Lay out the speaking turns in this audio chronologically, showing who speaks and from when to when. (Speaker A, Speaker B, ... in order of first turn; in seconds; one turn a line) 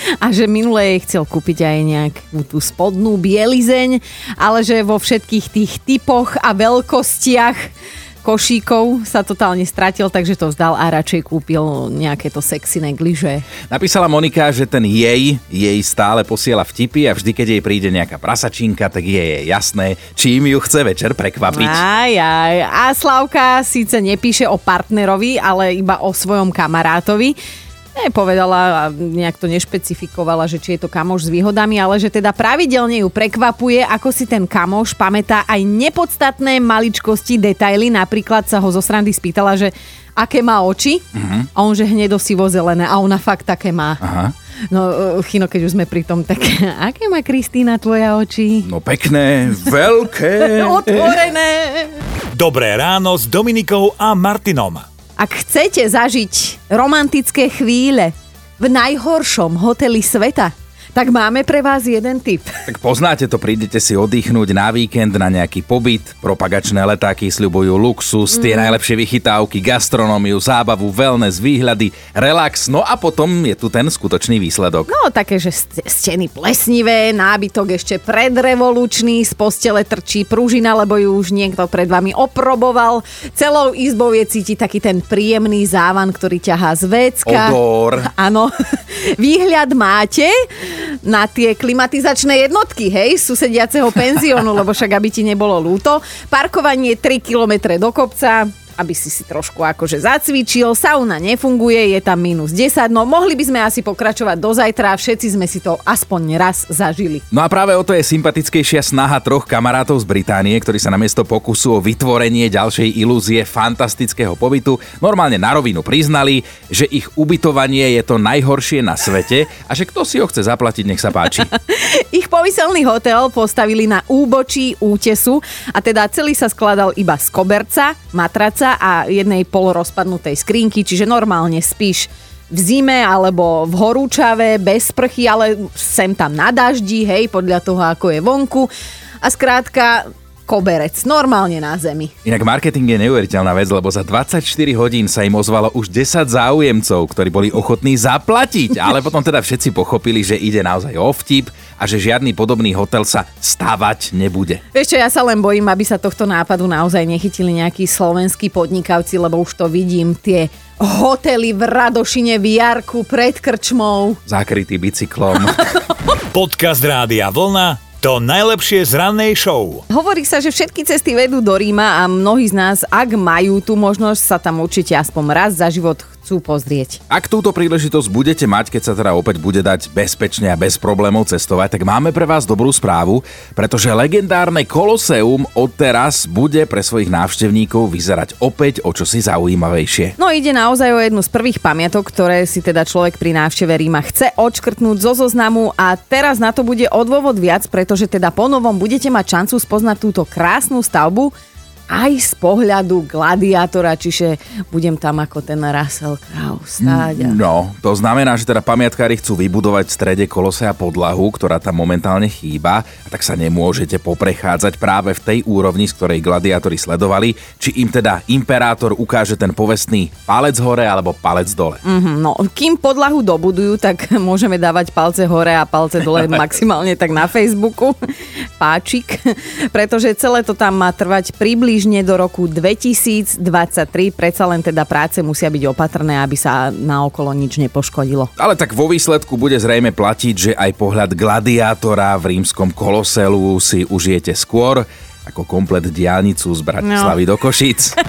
Speaker A: 0.2-7.7
Speaker A: 8.2-13.5
Speaker B: 13.7-21.8
Speaker A: 21.5-27.4
Speaker A: 27.9-41.0
Speaker B: 41.1-41.5
Speaker A: 41.5-44.0
Speaker B: 44.0-44.3
Speaker A: 44.7-48.7
Speaker B: 48.6-51.2
Speaker A: 50.4-52.0
Speaker C: 52.3-54.8
Speaker A: 55.2-62.6
Speaker B: 62.6-74.9
Speaker A: 74.9-107.2
Speaker B: 87.2-88.1
Speaker B: 107.3-121.5
Speaker A: 121.4-138.7
Speaker A: 139.2-142.1
Speaker B: 142.2-154.6
Speaker A: 154.7-164.2
Speaker B: 164.3-165.7
Speaker A: 165.6-166.0
Speaker C: 166.3-169.8
Speaker A: 169.9-177.0
Speaker B: 177.1-190.2
Speaker A: 190.2-201.3
Speaker A: 201.9-207.4
Speaker B: 206.8-221.8
Speaker A: 221.8-238.3
Speaker B: 238.4-247.9
Speaker A: 246.8-247.2